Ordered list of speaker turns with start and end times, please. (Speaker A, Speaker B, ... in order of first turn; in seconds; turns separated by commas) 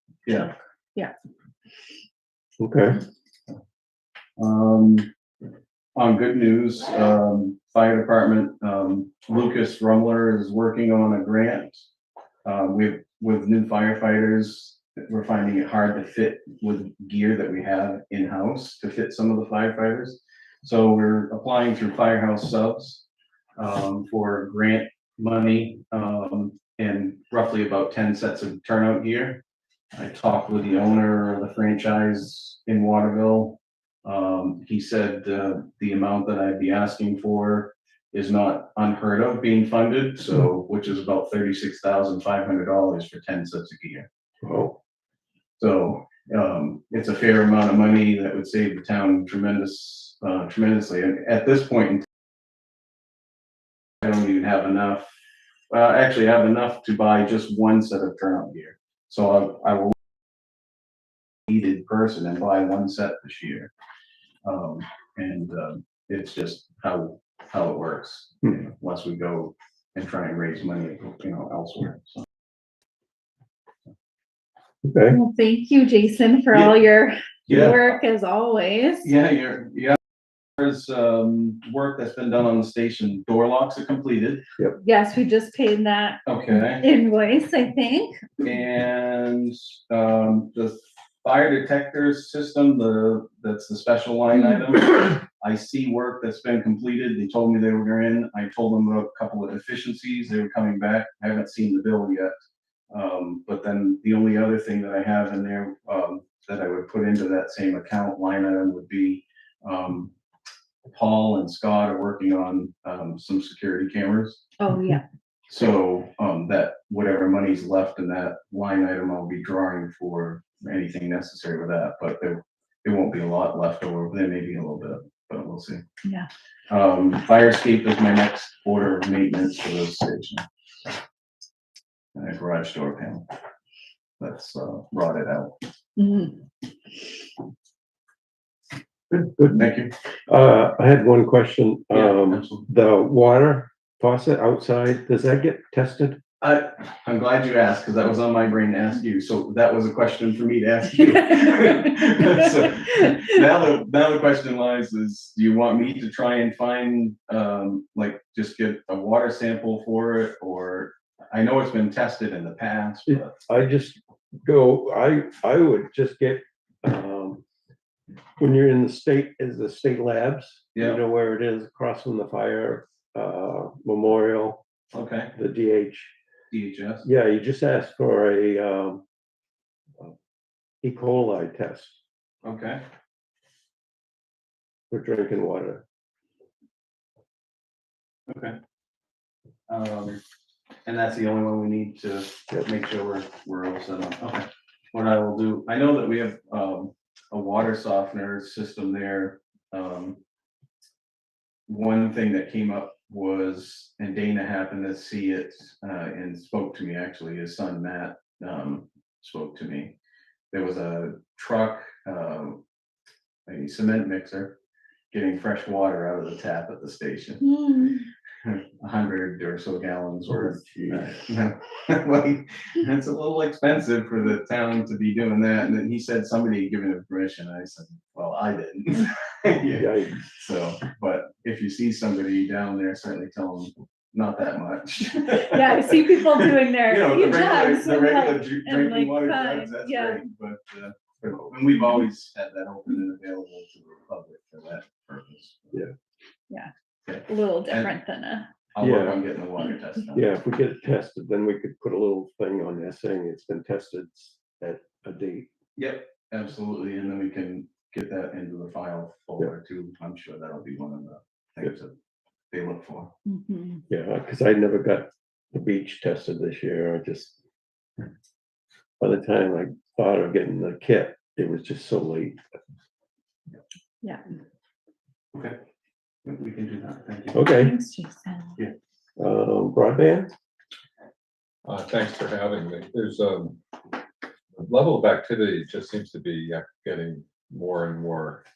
Speaker A: 0.3-1.1, Speaker B: 2.6-3.0, Speaker C: 4.4-5.1, Speaker C: 6.0-11.8, Speaker C: 12.4-23.0, Speaker C: 23.6-29.4, Speaker C: 29.9-44.1, Speaker B: 44.4-44.8, Speaker C: 45.6-52.0, Speaker C: 54.0-55.1, Speaker C: 55.7-59.9, Speaker C: 61.5-63.7, Speaker C: 64.4-72.2, Speaker B: 74.8-75.2, Speaker A: 75.1-79.1, Speaker C: 77.5-77.9, Speaker B: 77.5-77.7, Speaker C: 79.0-80.0, Speaker C: 80.6-84.4, Speaker A: 84.8-88.2, Speaker C: 86.2-86.8, Speaker C: 88.4-102.3, Speaker C: 102.9-110.1, Speaker C: 110.8-114.4, Speaker A: 114.6-115.0, Speaker C: 115.5-125.8, Speaker C: 126.7-130.4, Speaker C: 132.1-133.2, Speaker C: 134.2-135.5, Speaker A: 136.0-136.4, Speaker B: 139.1-139.7, Speaker C: 139.5-139.9, Speaker B: 140.3-146.2, Speaker C: 141.9-142.7, Speaker C: 146.4-163.5, Speaker B: 163.1-167.4, Speaker B: 168.4-174.6, Speaker C: 170.7-171.0, Speaker C: 174.9-175.3, Speaker B: 175.3-176.1, Speaker C: 176.5-177.1, Speaker B: 177.0-179.0, Speaker B: 180.8-182.0, Speaker C: 182.4-182.8, Speaker B: 184.9-185.8, Speaker C: 188.3-188.6, Speaker C: 189.7-190.2, Speaker C: 190.8-200.2, Speaker C: 201.7-209.9, Speaker C: 210.5-212.6, Speaker C: 213.5-214.6, Speaker C: 215.1-217.4, Speaker A: 217.4-218.0, Speaker C: 218.4-245.8, Speaker B: 220.3-221.1, Speaker B: 229.7-230.2, Speaker A: 235.2-240.2, Speaker C: 247.1-247.9, Speaker A: 247.3-248.5, Speaker C: 248.7-250.3, Speaker B: 248.8-249.2, Speaker B: 250.1-255.5, Speaker C: 255.8-261.9, Speaker C: 262.5-263.1, Speaker A: 263.2-263.8, Speaker B: 263.9-267.3, Speaker B: 269.0-272.4, Speaker C: 276.2-277.4, Speaker B: 277.3-277.7, Speaker A: 277.4-278.5, Speaker B: 279.2-280.3, Speaker D: 281.6-283.6, Speaker D: 284.5-288.4